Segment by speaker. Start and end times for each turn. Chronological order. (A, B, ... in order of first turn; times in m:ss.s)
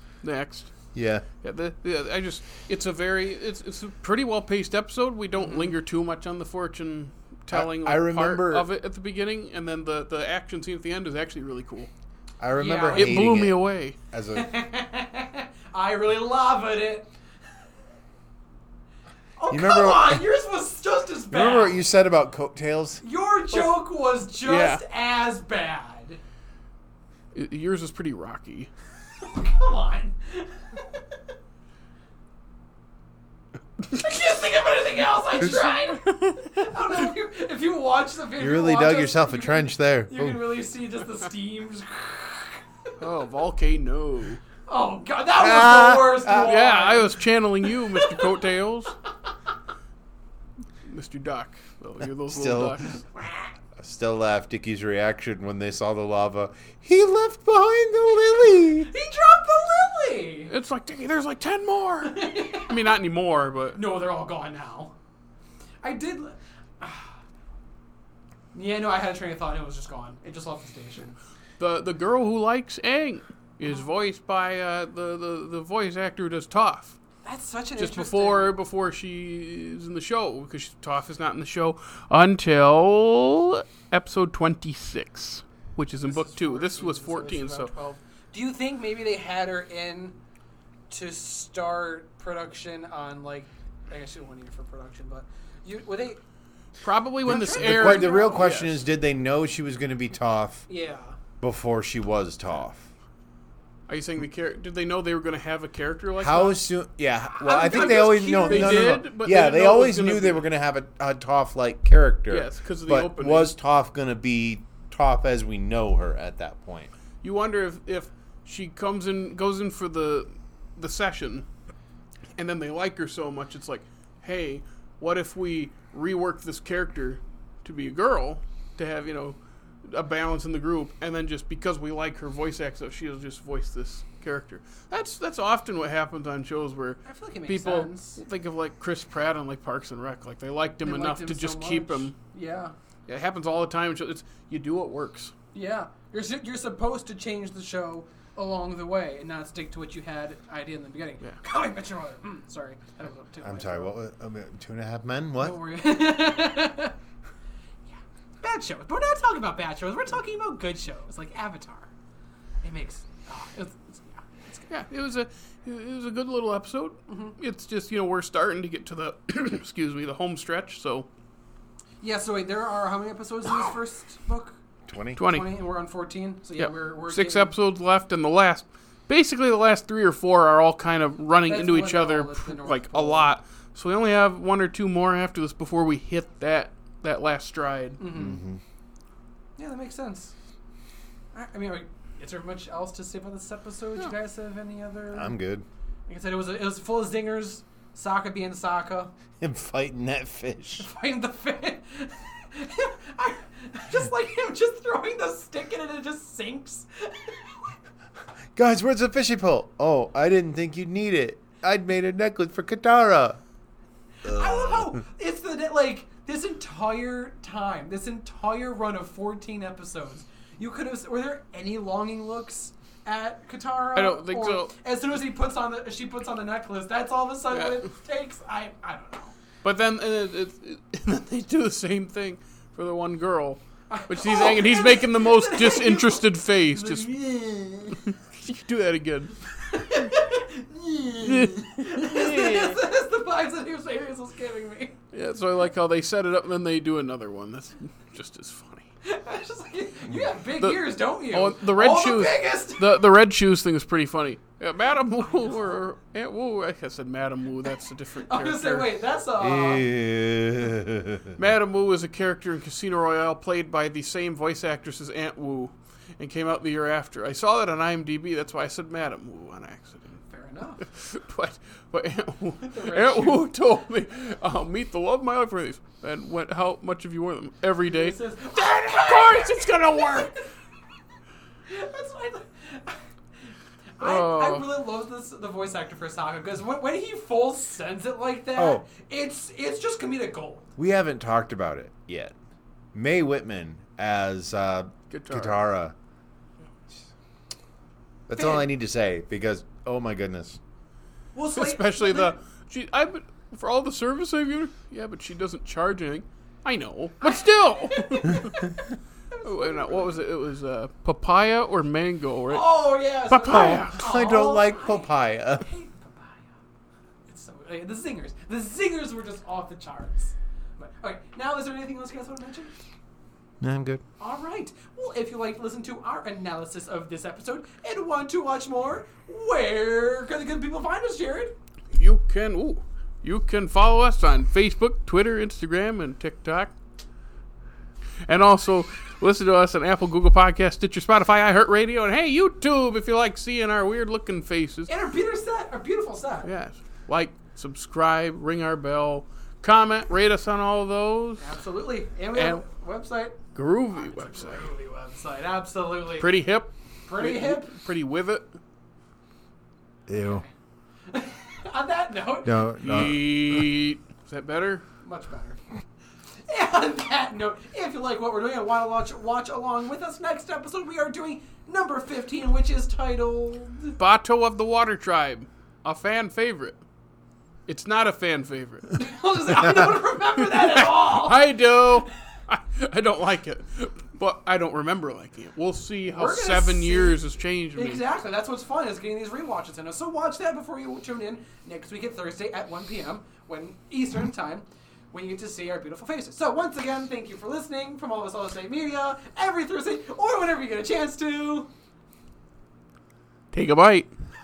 0:00.2-0:00.7 A
0:00.9-0:01.2 B
0:01.4-0:11.9 A
0:05.5-0:05.7 C
0:07.5-0:08.7 B
0:12.4-0:13.6 B
0:12.6-0:13.2 C
0:12.9-0:14.0 A
0:14.1-0:14.5 B
0:14.3-0:17.1 C
0:19.4-0:21.8 C
0:19.5-0:20.2 B
0:21.3-0:23.0 B
0:23.0-0:26.2 C
0:23.5-0:23.8 A
0:24.4-0:24.8 A
0:27.3-0:28.7 A
0:29.2-0:30.8 C
0:33.9-0:42.6 C
0:38.4-0:40.4 B
0:43.0-0:44.4 A
0:44.7-0:48.3 C
0:45.4-0:46.6 B
0:46.4-0:48.9 A
0:50.8-0:53.0 A
0:52.3-0:52.8 B
0:53.2-0:53.5 C
0:53.8-0:58.9 B
0:58.8-1:00.5 C
1:00.5-1:03.8 A
1:02.0-1:02.8 C
1:03.7-1:04.9 C
1:05.8-1:07.2 C
1:08.5-1:11.2 C
1:11.6-1:17.0 A
1:17.2-1:18.6 C
1:17.8-1:27.7 A
1:26.0-1:30.2 C
1:30.9-1:36.2 C
1:36.8-1:38.8 A
1:37.2-1:38.5 C
1:37.3-1:40.7 B
1:40.7-1:41.2 C
1:41.4-1:42.9 B
1:43.9-1:46.6 A
1:46.2-1:56.9 B
1:47.4-1:49.0 C
1:47.6-1:50.4 A
1:52.3-1:53.5 A
1:57.2-2:01.4 A
2:02.4-2:22.1 A
2:17.0-2:18.2 C
2:20.8-2:22.7 C
2:23.1-2:25.3 A
2:25.5-2:33.9 C
2:33.4-2:35.6 B
2:35.4-2:36.9 C
2:37.9-2:41.9 C
2:42.6-2:44.6 C
2:44.7-2:51.1 A
2:47.1-2:47.4 C
2:52.0-2:54.6 C
2:54.8-2:55.2 B
2:55.2-2:55.5 A
2:55.2-2:57.6 C
2:56.6-3:08.0 A
3:01.4-3:03.4 C
3:08.0-3:08.4 C
3:08.1-3:08.6 B
3:09.6-3:10.3 C
3:11.3-3:15.3 C
3:15.1-3:15.6 B
3:16.1-3:19.1 C
3:19.4-3:20.9 B
3:20.8-3:27.7 C
3:28.5-3:33.4 B
3:34.2-3:49.3 C
3:34.2-3:34.9 B
3:44.0-3:44.7 A
3:47.5-3:47.8 A
3:49.6-3:57.1 A
3:53.9-3:58.0 C
3:58.0-3:59.4 A
3:59.7-4:05.0 C
4:01.2-4:02.8 A
4:05.1-4:08.9 A
4:09.0-4:12.9 C
4:10.6-4:18.9 A
4:15.0-4:15.8 C
4:18.2-4:19.9 C
4:19.4-4:21.3 B
4:21.4-4:30.2 A
4:30.3-4:30.8 C
4:30.8-4:40.4 A
4:32.6-4:33.5 C
4:37.8-4:40.4 C
4:41.7-4:43.0 C
4:44.0-4:50.7 C
4:44.0-4:44.7 A
4:48.6-4:48.8 B
4:50.8-4:52.3 B
4:52.9-4:55.9 B
4:55.1-4:55.6 A
4:58.3-5:00.6 B
4:58.3-4:58.7 C
5:01.3-5:02.4 C
5:01.5-5:08.6 A
5:07.2-5:08.7 C
5:09.3-5:10.2 C
5:09.4-5:12.7 A
5:12.5-5:16.5 C
5:13.2-5:14.0 A
5:13.5-5:15.6 B
5:17.3-5:22.8 C
5:23.6-5:24.0 B
5:24.2-5:31.5 C
5:31.9-5:36.7 A
5:38.3-5:44.9 A
5:44.9-5:46.5 C
5:46.4-5:51.4 A
5:51.4-5:53.4 C
5:52.3-5:52.6 A
5:53.5-5:54.7 A
5:53.9-5:56.3 C
5:56.1-5:58.5 A
5:57.1-5:57.7 C
6:00.1-6:00.4 B
6:01.1-6:03.0 C
6:02.4-6:03.6 B
6:02.8-6:04.8 A
6:05.0-6:05.6 C
6:06.4-6:14.0 C
6:14.0-6:16.8 A
6:17.7-6:18.9 A
6:18.9-6:21.5 C
6:20.4-6:28.0 A
6:26.1-6:27.2 C
6:27.7-6:41.7 C
6:43.5-6:44.1 A